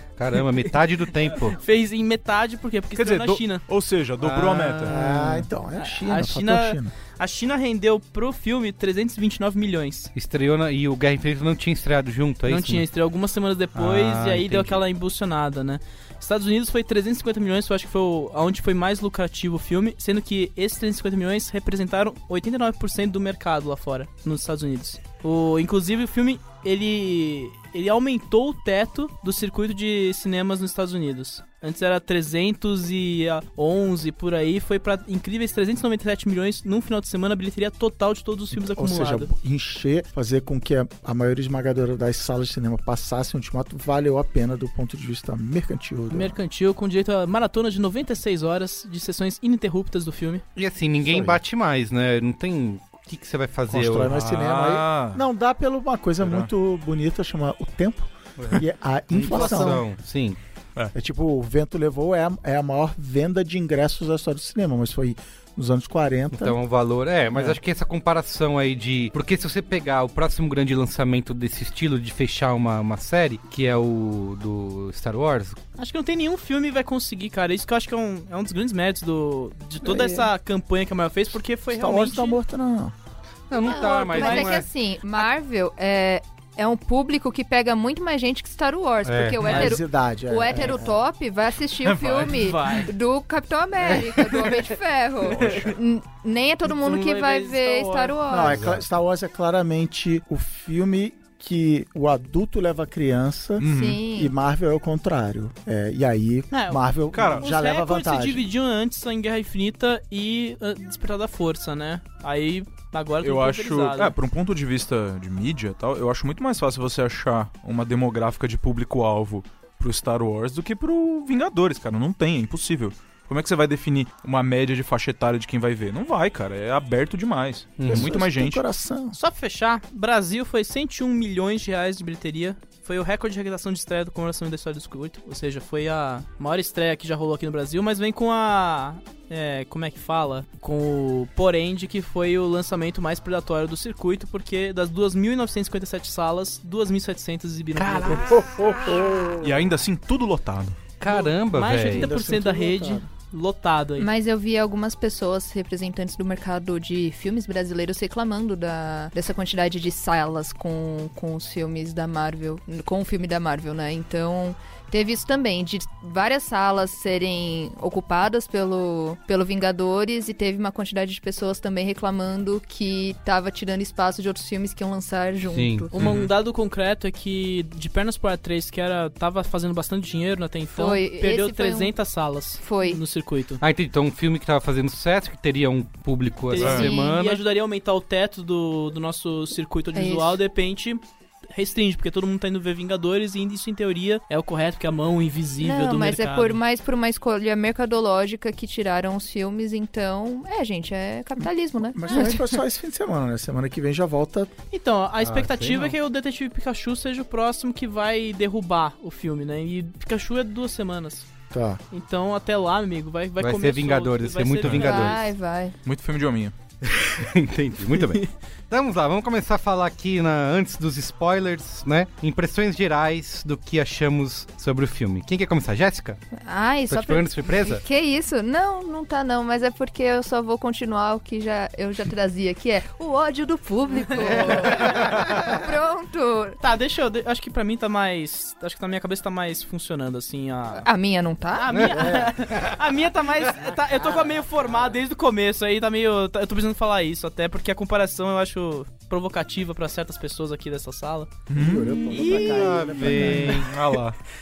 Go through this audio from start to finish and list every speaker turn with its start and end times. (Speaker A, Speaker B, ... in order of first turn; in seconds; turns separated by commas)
Speaker A: 0.2-1.6, Speaker B: 1.5-3.6, Speaker C: 2.9-5.0, Speaker A: 4.2-5.4, Speaker D: 4.8-6.9, Speaker B: 5.8-10.1, Speaker A: 10.1-12.8, Speaker B: 12.4-39.3, Speaker A: 13.8-14.8, Speaker D: 38.5-46.3, Speaker B: 46.1-50.4, Speaker A: 50.6-54.1, Speaker D: 51.0-51.4, Speaker D: 53.7-59.8, Speaker C: 54.0-55.2, Speaker C: 56.2-56.5, Speaker A: 59.1-60.4, Speaker B: 59.4-59.8, Speaker D: 60.9-66.6, Speaker A: 66.3-75.6, Speaker B: 75.8-82.4, Speaker D: 79.8-80.3, Speaker D: 81.7-82.9, Speaker A: 83.5-84.7, Speaker E: 83.6-98.6, Speaker B: 83.7-84.6, Speaker A: 89.0-89.6, Speaker B: 89.4-89.7, Speaker D: 89.5-91.0, Speaker C: 91.8-92.6, Speaker B: 92.2-92.9, Speaker C: 95.3-95.7, Speaker B: 96.7-98.2, Speaker D: 98.3-108.4, Speaker A: 98.5-98.8, Speaker C: 103.6-104.0, Speaker E: 103.6-104.3, Speaker B: 106.5-114.1, Speaker C: 107.1-107.5, Speaker C: 113.2-128.6, Speaker A: 127.8-128.2, Speaker D: 127.9-129.2, Speaker B: 129.1-148.3, Speaker A: 147.8-149.0, Speaker D: 148.3-149.6, Speaker C: 149.4-150.8, Speaker A: 151.0-152.1, Speaker B: 151.1-154.1, Speaker D: 151.8-153.1, Speaker E: 154.0-175.9, Speaker A: 175.5-175.9, Speaker B: 175.9-183.6, Speaker C: 175.9-176.3, Speaker E: 180.7-181.9, Speaker E: 182.6-183.0, Speaker A: 183.6-187.4, Speaker B: 186.5-196.6, Speaker E: 186.6-187.1, Speaker E: 189.9-190.4, Speaker E: 195.6-202.6, Speaker D: 201.9-204.5, Speaker B: 204.7-211.3, Speaker A: 205.2-205.9, Speaker D: 211.5-211.8, Speaker B: 211.9-215.2, Speaker A: 213.4-215.3, Speaker E: 214.7-215.8, Speaker C: 215.8-216.5, Speaker A: 216.8-226.2, Speaker E: 226.4-236.6, Speaker A: 226.9-227.8, Speaker A: 234.2-235.4, Speaker B: 234.4-234.9, Speaker B: 236.6-240.9, Speaker E: 240.8-242.1, Speaker B: 241.5-251.3, Speaker D: 242.0-242.3, Speaker A: 242.5-242.8, Speaker C: 251.5-252.0, Speaker D: 251.5-253.6, Speaker A: 252.1-253.7, Speaker B: 252.1-253.6, Speaker C: 253.6-254.2